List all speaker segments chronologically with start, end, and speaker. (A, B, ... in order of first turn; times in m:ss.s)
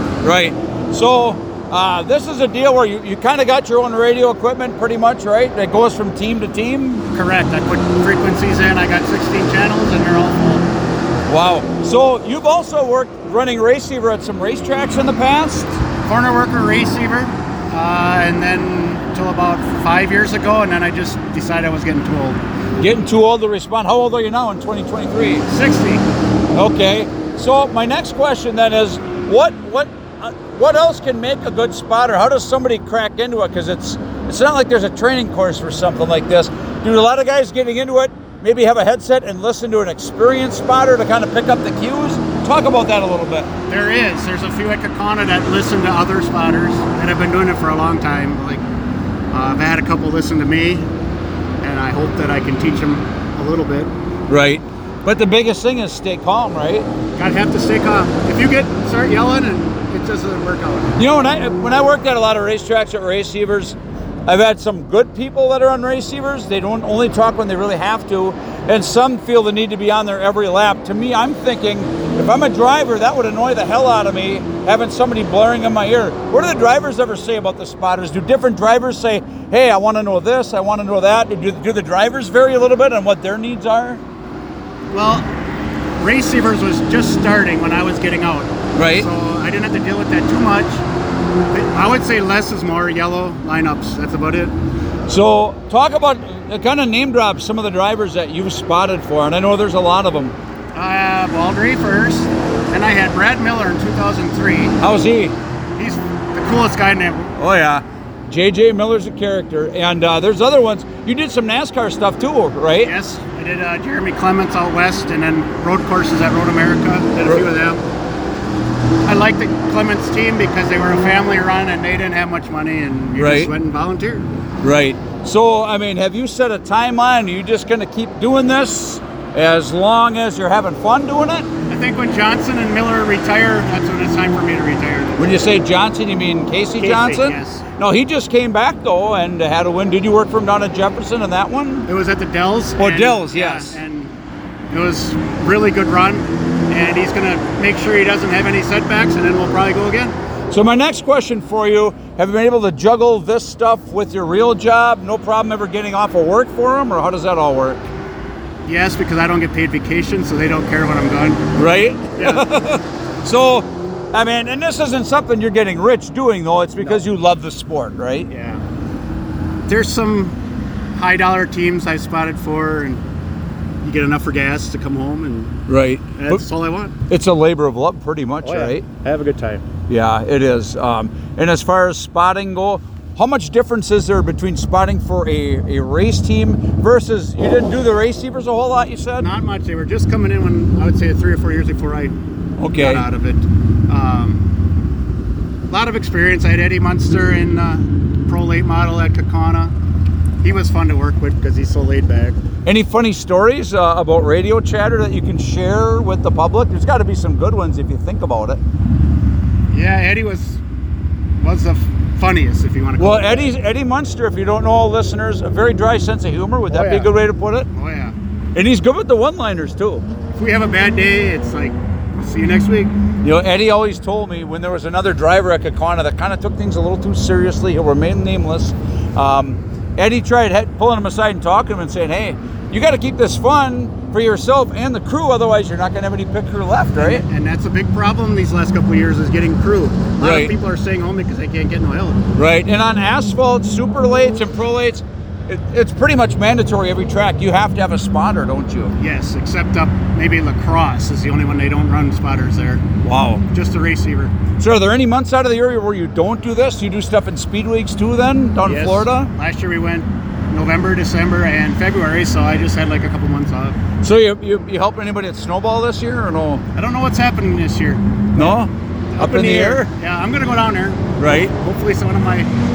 0:00.2-0:07.1 A
0:07.1-0:10.7 B
0:11.3-0:15.8 A
0:16.0-0:22.4 B
0:22.8-0:25.4 A
0:25.5-0:26.0 B
0:26.5-0:43.5 A
0:43.7-0:48.6 B
0:49.3-0:50.8 B
0:51.6-0:53.9 B
0:54.3-0:56.9 A
0:57.2-1:01.0 B
1:01.0-1:24.0 A
1:24.9-1:25.3 B
1:26.0-1:30.8 B
1:28.7-1:29.1 A
1:31.5-1:34.5 B
1:35.1-1:40.3 A
1:40.7-1:44.8 B
1:44.8-1:45.3 A
1:45.8-1:47.4 B
1:47.4-1:52.9 A
1:52.8-1:57.8 B
1:59.0-2:04.2 B
2:03.2-2:03.5 A
2:04.6-2:11.5 A
2:11.7-2:15.5 B
2:15.2-2:21.8 A
2:16.8-2:17.6 B
2:21.8-2:24.1 B
2:22.8-2:23.8 A
2:24.7-2:30.1 B
2:30.5-2:37.8 A
2:38.6-2:41.4 B
2:41.5-2:48.3 A
2:42.2-2:42.4 B
2:46.8-2:47.0 B
2:48.3-2:48.6 B
2:49.7-2:50.4 B
2:50.9-2:53.0 B
2:53.8-2:55.6 B
2:55.7-2:56.4 A
2:56.2-2:56.9 B
2:57.1-2:58.8 A
2:58.4-2:59.6 B
2:59.9-3:09.3 A
3:09.2-3:12.1 B
3:12.6-3:13.0 A
3:12.7-3:14.4 B
3:15.7-3:19.7 B
3:20.4-3:22.4 B
3:22.6-3:28.6 A
3:29.7-3:30.6 B
3:31.4-3:33.5 B
3:33.0-3:37.7 A
3:36.7-3:37.1 B
3:37.7-3:38.1 B
3:38.5-3:40.0 A
3:40.4-3:42.9 B
3:43.2-3:57.2 A
3:57.0-4:02.2 B
4:00.2-4:00.5 A
4:02.3-4:09.0 A
4:09.0-4:12.8 B
4:13.0-4:13.4 A
4:13.5-4:14.3 B
4:14.6-4:19.3 A
4:18.6-4:23.8 B
4:24.0-4:26.6 A
4:26.7-4:28.6 B
4:28.4-4:29.9 A
4:29.1-4:32.5 B
4:31.2-4:31.5 A